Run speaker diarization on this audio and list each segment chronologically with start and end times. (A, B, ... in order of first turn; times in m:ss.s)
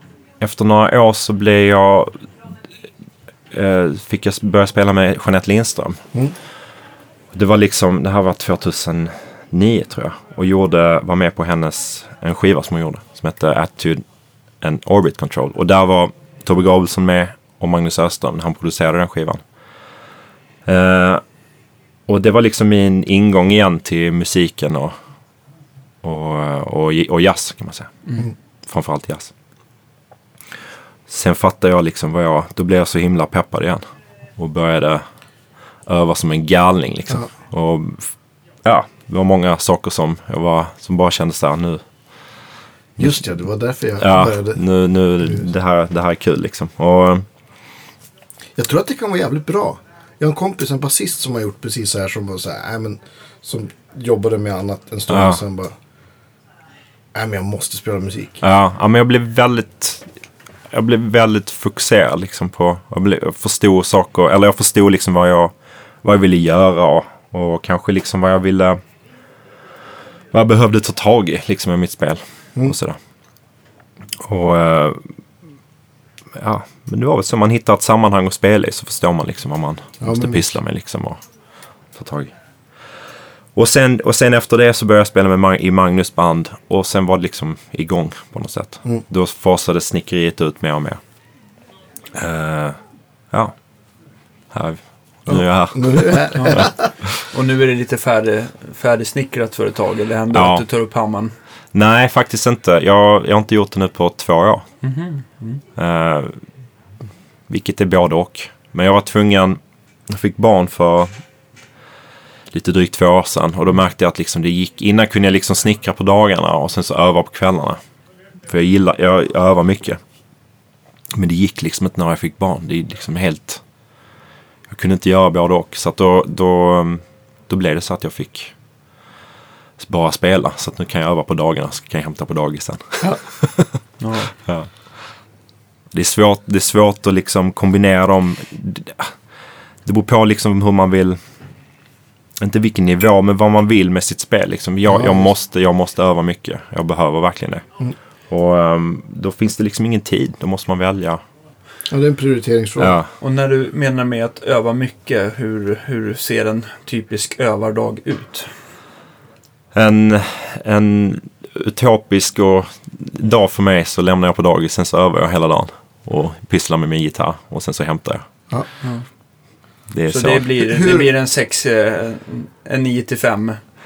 0:00.4-0:02.2 A
0:03.5-0:06.0 A
0:07.3-0:14.0 A
0:14.6-0:19.4 A
0:20.7-0:21.2 A
0:22.1-0:25.0 A
0:26.0-0:29.3 A
0:31.1-0:33.8 A
0:34.4-0:35.0 A
0:35.9-0:38.1 A
0:38.6-0:41.8 A
0:43.0-0:44.6 B
0:44.0-0:47.2 A
0:45.2-0:45.5 B
0:48.6-0:55.8 B
0:55.1-0:55.4 A
0:57.1-0:58.4 B
0:58.4-1:00.1 A
1:00.7-1:05.5 A
1:06.0-1:08.8 A
1:10.3-1:13.0 A
1:14.2-1:15.1 A
1:16.4-1:21.2 A
1:20.0-1:20.4 B
1:21.9-1:22.3 A
1:23.6-1:31.0 A
1:32.1-1:32.8 A
1:34.5-1:36.7 A
1:35.3-1:36.9 B
1:36.3-1:36.7 C
1:37.2-1:41.4 C
1:40.3-1:40.6 A
1:41.7-1:44.7 A
1:44.8-1:45.6 C
1:45.8-1:46.4 A
1:47.5-1:51.1 A
1:52.5-1:57.8 A
1:58.5-2:00.0 A
2:01.2-2:03.6 A
2:04.7-2:08.5 A
2:09.8-2:13.7 A
2:14.0-2:14.3 C
2:14.4-2:14.7 A
2:15.9-2:19.1 A
2:19.8-2:21.2 A
2:22.4-2:27.6 A
2:24.9-2:25.3 B
2:28.3-2:31.2 A
2:31.9-2:33.0 B
2:32.8-2:33.1 A
2:33.2-2:38.5 C
2:39.7-2:48.2 A
2:49.9-2:50.6 A
2:50.1-2:53.6 C
2:50.6-2:51.1 B